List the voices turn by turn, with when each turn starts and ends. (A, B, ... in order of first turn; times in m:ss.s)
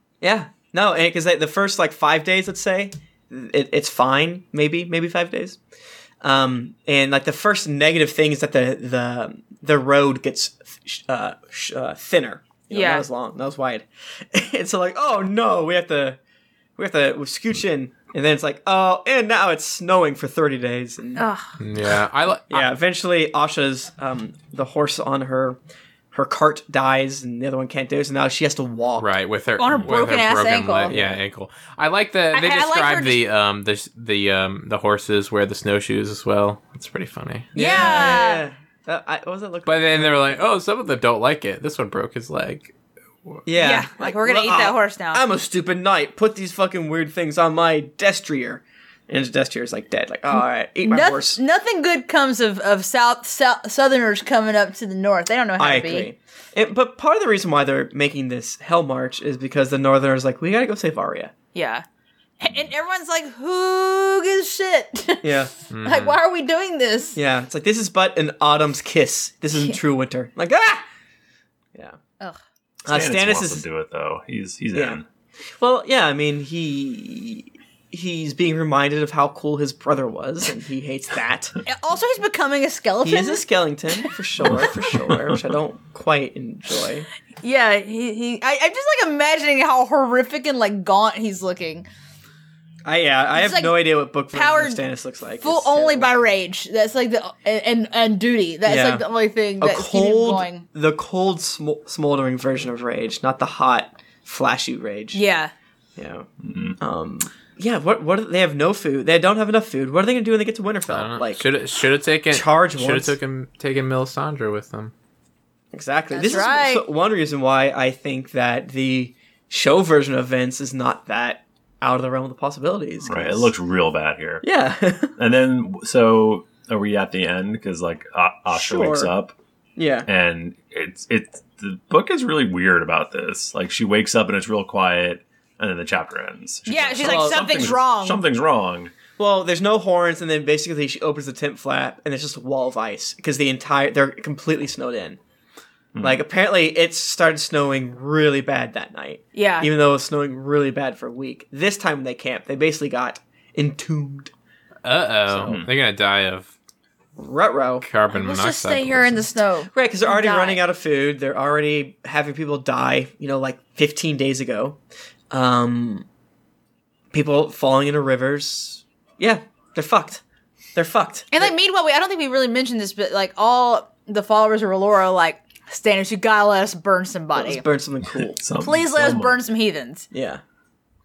0:00.2-0:05.6 A
0:06.2-0:16.2 A
0:12.7-0:13.0 B
0:16.8-0:21.2 A
0:21.2-0:21.6 B
0:21.6-0:22.7 C
0:22.5-0:25.6 A
0:26.1-0:29.1 A
0:29.0-0:38.2 C
0:29.6-0:30.9 B
0:30.9-0:31.2 A
0:32.3-0:33.2 B
0:37.5-0:40.4 A
0:37.5-0:38.4 B
0:39.6-0:42.7 C
0:43.4-0:51.4 A
0:43.6-0:45.2 B
0:50.8-0:56.1 B
0:55.6-1:01.3 A
1:01.5-1:01.8 B
1:02.4-1:07.2 B
1:05.2-1:05.5 A
1:05.7-1:06.2 C
1:07.2-1:10.8 A
1:12.8-1:13.6 A
1:12.9-1:15.0 D
1:14.7-1:15.0 A
1:15.6-1:21.6 A
1:21.6-1:24.1 B
1:23.0-1:27.1 A
1:24.9-1:25.4 D
1:27.4-1:31.9 B
1:32.8-1:36.1 A
1:33.3-1:34.8 B
1:35.4-1:40.6 B
1:38.6-1:39.0 A
1:39.6-1:45.2 A
1:45.1-1:45.5 B
1:46.0-1:46.2 A
1:46.4-1:46.8 D
1:46.8-1:51.4 A
1:50.9-1:54.9 C
1:52.3-1:53.1 A
1:55.7-2:03.5 A
1:56.1-1:56.8 B
2:03.0-2:04.4 D
2:04.4-2:05.1 A
2:05.2-2:09.3 D
2:08.5-2:09.1 A
2:09.8-2:10.1 A
2:10.0-2:18.9 D
2:16.6-2:18.2 B
2:17.0-2:17.6 A
2:19.2-2:25.2 A
2:25.9-2:26.2 D
2:26.0-2:34.3 A
2:29.3-2:29.7 B
2:34.8-2:36.5 C
2:35.3-2:35.7 D
2:37.2-2:37.9 A
2:37.8-2:39.2 C
2:38.1-2:40.6 B
2:39.7-2:44.8 A
2:45.3-2:46.0 A
2:47.1-2:50.2 A
2:50.7-2:51.5 A
2:51.3-2:57.6 B
2:57.3-2:58.4 A
2:58.2-2:59.4 D
2:58.6-3:00.1 B
3:00.1-3:00.4 A